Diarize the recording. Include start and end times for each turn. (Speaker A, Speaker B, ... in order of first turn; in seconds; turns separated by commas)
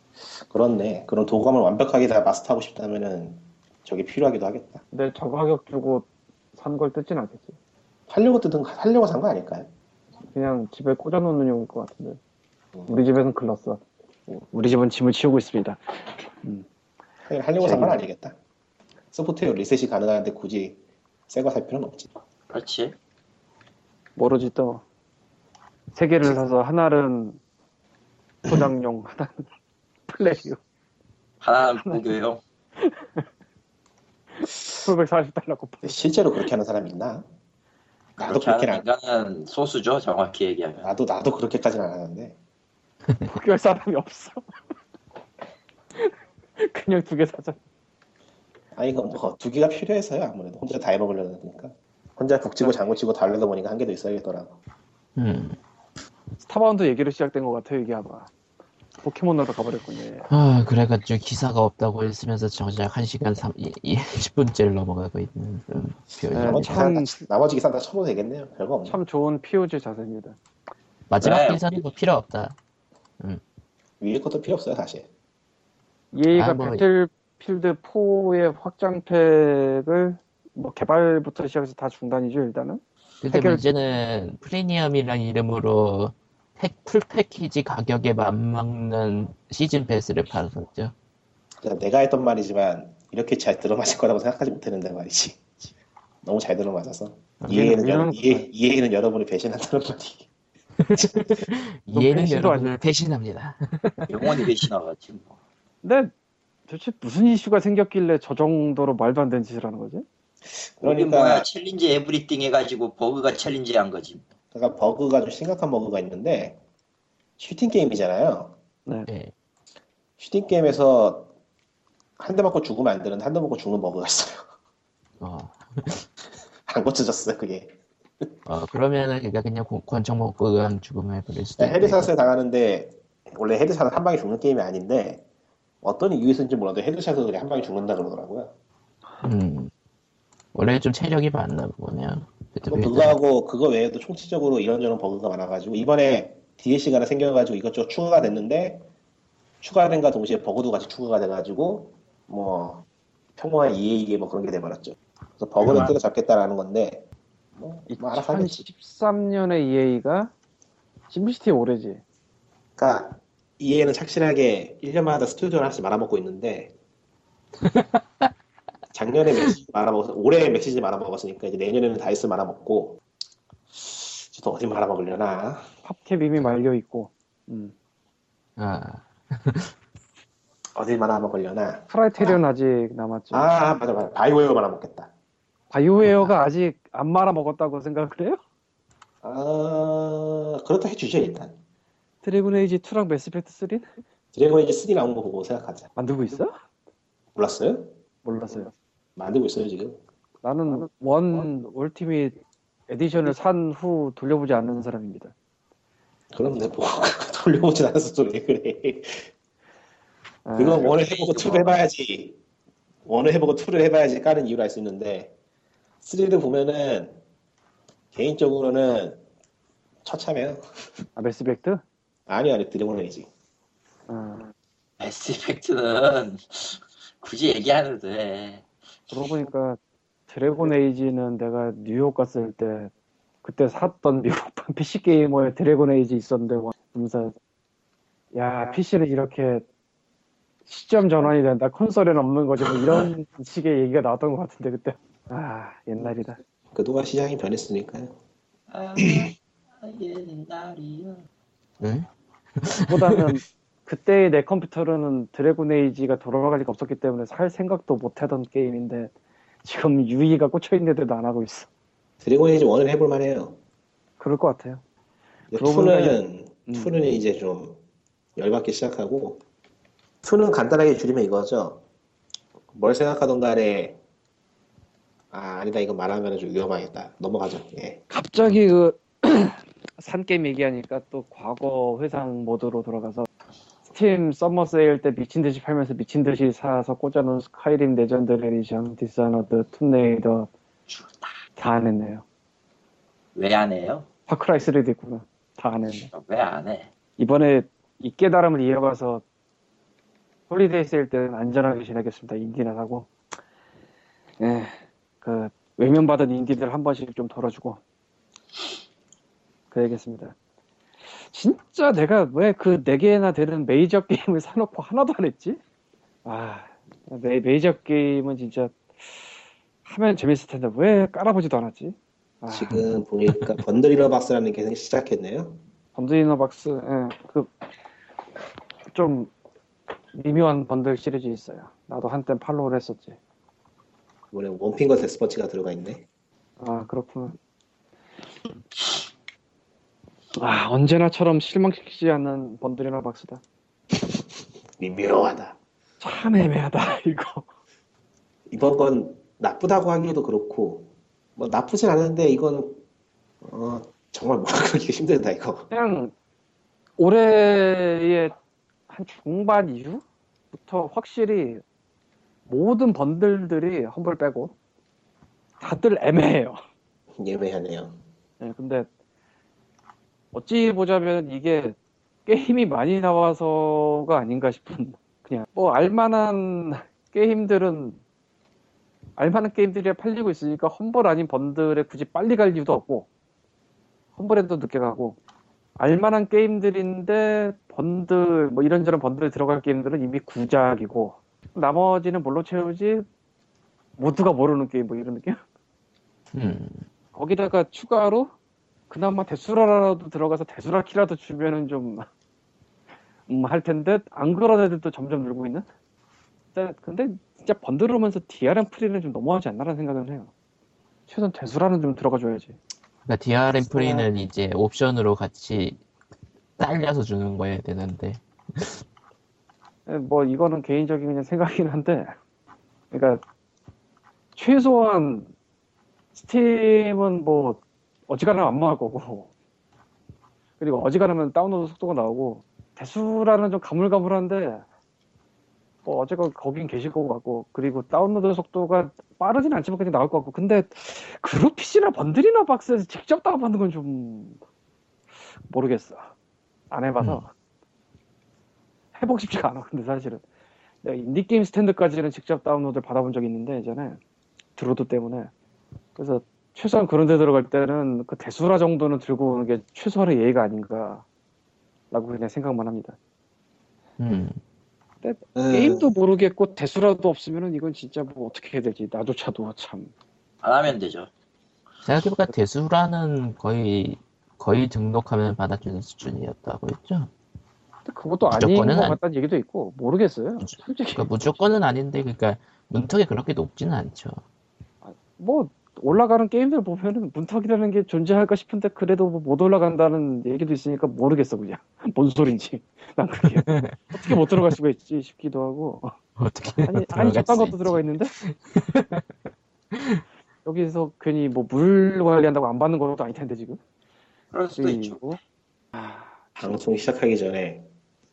Speaker A: 0.3-4.8, Speaker B: 4.9-7.5, Speaker A: 8.1-9.7, Speaker B: 10.3-12.2, Speaker B: 12.9-13.8, Speaker B: 14.5-16.6, Speaker A: 17.2-18.3, Speaker B: 17.6-18.0, Speaker A: 19.1-20.8, Speaker A: 21.3-22.1, Speaker C: 22.5-22.9, Speaker B: 24.1-24.8, Speaker B: 25.9-27.4, Speaker B: 28.5-29.5, Speaker B: 30.1-30.6, Speaker C: 31.4-32.4, Speaker B: 31.8-32.1, Speaker B: 32.8-33.2, Speaker B: 34.4-36.0, Speaker A: 35.8-37.2, Speaker A: 38.2-38.8, Speaker C: 38.2-40.9, Speaker A: 40.8-42.4, Speaker B: 43.2-44.5, Speaker B: 45.9-47.6, Speaker A: 48.7-54.6, Speaker D: 55.1-55.6, Speaker B: 56.4-58.3, Speaker B: 59.0-60.3, Speaker D: 60.3-66.8, Speaker A: 66.3-69.0, Speaker B: 66.3-67.2, Speaker B: 68.8-70.4, Speaker D: 71.1-72.5, Speaker C: 71.2-71.6, Speaker A: 74.0-75.1, Speaker B: 76.1-83.6, Speaker D: 76.3-76.8, Speaker D: 83.2-90.9, Speaker A: 91.6-95.6, Speaker A: 96.2-100.3, Speaker B: 97.5-98.5, Speaker D: 100.8-104.5, Speaker A: 101.0-101.4, Speaker B: 101.9-102.7, Speaker C: 104.1-105.4, Speaker B: 105.8-106.1, Speaker B: 106.7-110.0, Speaker A: 110.8-111.5, Speaker C: 110.8-114.2, Speaker A: 114.5-116.6, Speaker A: 117.4-118.5, Speaker D: 119.1-119.3, Speaker A: 120.2-121.3, Speaker A: 122.2-124.4, Speaker D: 125.2-126.0, Speaker A: 126.7-128.3, Speaker D: 128.4-132.1, Speaker A: 131.6-135.2, Speaker A: 135.8-138.5, Speaker D: 139.2-139.7, Speaker D: 140.5-143.2, Speaker A: 142.7-148.9, Speaker A: 149.6-152.8, Speaker A: 153.4-158.6, Speaker B: 157.9-160.3, Speaker B: 161.1-162.0, Speaker A: 162.8-166.7, Speaker D: 167.6-168.3, Speaker A: 168.9-173.0, Speaker A: 173.8-175.7, Speaker B: 175.8-177.7, Speaker D: 178.6-179.7, Speaker A: 180.7-182.4, Speaker B: 181.9-183.5, Speaker A: 183.3-185.1, Speaker B: 185.7-188.4, Speaker D: 186.0-186.3, Speaker A: 189.2-191.6, Speaker B: 192.2-193.8, Speaker A: 194.3-195.9, Speaker B: 195.9-196.5, Speaker A: 197.3-197.9, Speaker B: 198.2-198.7, Speaker A: 199.2-200.0, Speaker B: 200.4-202.4, Speaker B: 202.9-205.3, Speaker A: 206.3-209.3, Speaker B: 210.4-211.0, Speaker A: 210.6-212.4, Speaker C: 211.0-211.3, Speaker A: 213.1-215.3, Speaker A: 216.0-217.2, Speaker A: 218.1-219.2, Speaker A: 220.0-220.6, Speaker B: 221.2-221.8, Speaker A: 222.3-223.3, Speaker B: 224.1-224.5, Speaker C: 225.0-228.6, Speaker B: 229.1-232.9, Speaker B: 233.4-237.3, Speaker B: 238.3-239.7, Speaker B: 240.7-246.4, Speaker A: 246.7-248.1, Speaker C: 248.7-251.2, Speaker A: 249.0-249.2, Speaker D: 251.8-252.1, Speaker D: 252.6-253.4, Speaker B: 252.9-259.1, Speaker B: 259.6-261.7, Speaker A: 262.2-263.6, Speaker B: 264.2-264.8, Speaker A: 265.5-267.8, Speaker B: 265.5-267.0, Speaker A: 268.4-269.4, Speaker A: 270.2-271.8, Speaker A: 272.7-274.0, Speaker A: 275.3-278.0, Speaker B: 278.1-283.3, Speaker B: 283.9-290.5, Speaker C: 290.9-291.4, Speaker B: 291.6-292.2, Speaker C: 293.3-294.1, Speaker B: 294.3-296.1, Speaker C: 296.1-296.9, Speaker B: 297.2-299.2, Speaker B: 300.5-303.1, Speaker B: 304.4-307.8, Speaker B: 309.7-310.3, Speaker B: 311.2-315.6, Speaker B: 316.2-322.8, Speaker A: 322.5-325.6, Speaker B: 325.9-327.5, Speaker B: 328.9-329.3, Speaker B: 330.1-333.2, Speaker A: 334.3-336.0, Speaker B: 336.6-337.4, Speaker B: 340.4-343.4, Speaker A: 344.8-345.6, Speaker B: 346.0-347.5, Speaker A: 348.5-352.8, Speaker A: 353.4-355.7, Speaker B: 355.7-356.1, Speaker B: 357.0-358.3, Speaker B: 358.9-361.6, Speaker B: 362.5-364.5, Speaker B: 365.6-366.6, Speaker A: 367.2-368.0, Speaker B: 368.4-368.9, Speaker B: 370.3-378.0, Speaker B: 379.2-383.1, Speaker B: 384.1-385.2, Speaker B: 385.8-393.1, Speaker B: 394.0-395.4, Speaker D: 396.3-396.8, Speaker B: 397.1-398.3, Speaker B: 398.9-402.1, Speaker B: 403.3-405.6, Speaker B: 406.5-410.3, Speaker B: 411.1-412.6, Speaker D: 413.1-415.8, Speaker B: 413.7-414.1, Speaker D: 416.6-418.8, Speaker B: 419.9-422.1, Speaker B: 422.9-423.2, Speaker B: 424.4-425.3, Speaker B: 426.1-429.3, Speaker B: 430.6-434.6, Speaker B: 435.8-444.4, Speaker B: 445.5-446.1, Speaker B: 446.7-447.3, Speaker B: 448.9-450.2, Speaker B: 450.8-454.0, Speaker B: 454.6-455.3, Speaker B: 455.9-461.0, Speaker B: 461.9-463.0, Speaker D: 464.0-464.4, Speaker B: 465.0-469.9, Speaker A: 465.4-465.9, Speaker C: 470.4-471.1, Speaker D: 471.8-477.1, Speaker B: 477.9-481.4, Speaker D: 478.3-479.0, Speaker D: 480.4-484.2, Speaker B: 484.8-495.9, Speaker D: 493.4-494.2, Speaker D: 496.2-499.0, Speaker B: 496.6-498.1, Speaker D: 499.7-500.0, Speaker B: 500.4-503.6, Speaker C: 504.3-505.0, Speaker B: 504.6-505.2, Speaker B: 505.7-506.5, Speaker A: 506.4-507.6